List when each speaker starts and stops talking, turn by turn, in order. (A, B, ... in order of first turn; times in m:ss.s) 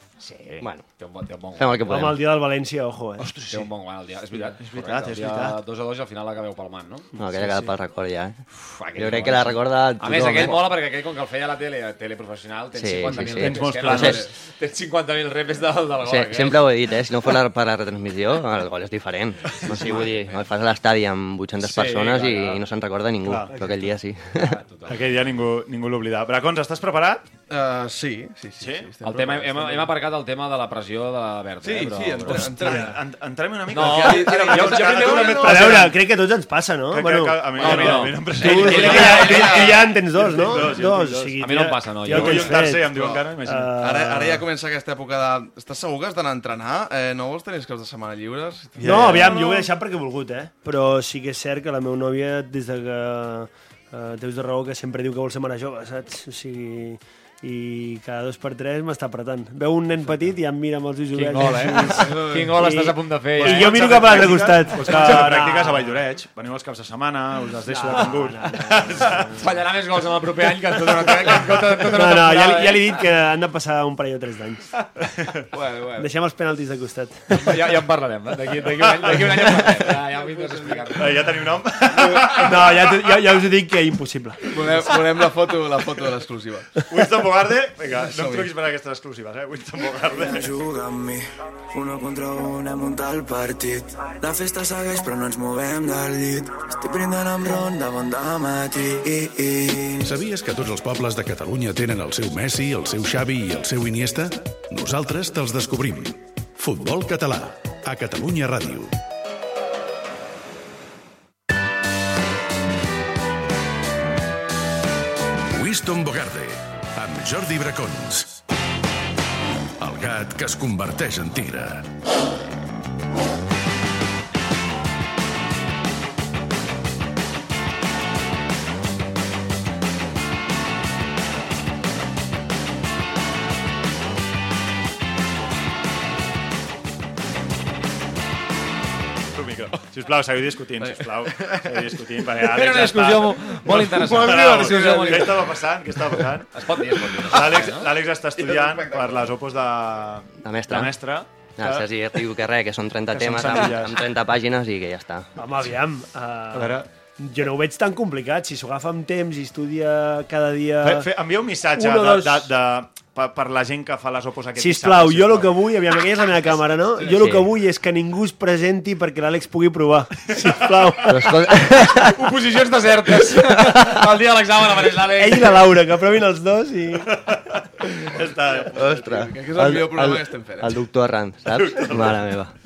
0:00.2-0:02.2 A
0:00.6-0:00.9 B
0:01.6-0:02.2 B
0:01.9-0:03.3 C
0:03.2-0:03.7 D
0:03.5-0:07.1 A
0:04.3-0:05.6 D
0:07.2-0:08.4 B
0:08.7-0:16.7 A
0:09.0-0:10.7 B
0:12.8-0:14.2 B
0:13.1-0:14.3 D
0:16.0-0:24.6 B
0:19.7-0:20.1 D
0:19.7-0:20.1 A
0:21.6-0:22.6 A
0:23.2-0:23.5 D
0:24.4-0:25.1 A
0:24.9-0:27.2 D
0:27.5-0:29.9 E
0:28.6-0:28.9 D
0:29.0-0:32.8 A
0:31.6-0:33.0 E
0:32.3-0:36.0 D
0:33.7-0:35.9 A
0:33.7-0:35.6 E
0:35.4-0:42.9 C
0:36.9-0:43.8 D
0:37.6-0:39.7 A
0:38.4-0:39.8 E
0:41.4-0:42.5 A
0:42.8-0:43.3 E
0:43.4-0:44.4 C
0:43.8-0:49.4 E
0:48.8-0:49.5 D
0:48.8-1:06.0 C
1:01.1-1:05.3 A
1:03.4-1:09.5 D
1:07.7-1:09.4 C
1:09.4-1:13.0 A
1:11.8-1:14.7 C
1:15.0-1:15.4 D
1:15.6-1:16.0 A
1:16.0-1:17.5 C
1:17.3-1:21.5 A
1:18.8-1:19.8 D
1:20.9-1:23.1 D
1:22.3-1:24.5 C
1:24.5-1:26.8 E
1:26.9-1:30.6 D
1:28.0-1:28.5 E
1:30.3-1:31.2 F
1:31.7-1:40.0 F
1:40.0-1:48.9 G
1:55.5-1:58.4 G
1:59.8-2:01.9 G
2:19.3-2:31.9 D
2:21.3-2:21.6 E
2:22.4-2:25.6 A
2:24.2-2:25.2 E
2:26.5-2:27.9 A
2:28.4-2:29.2 E
2:30.4-2:30.9 B
2:31.6-2:35.3 B
2:33.1-2:34.0 D
2:35.4-2:41.1 C
2:36.5-2:36.9 D
2:40.8-2:45.6 D
2:41.8-2:42.5 C
2:44.6-2:51.4 C
2:47.1-2:47.5 B
2:51.1-2:52.2 B
2:51.7-2:55.7 A
2:55.2-2:57.2 C
2:57.1-2:59.2 D
2:58.7-3:02.5 B
2:58.9-3:00.7 E
3:01.5-3:02.3 D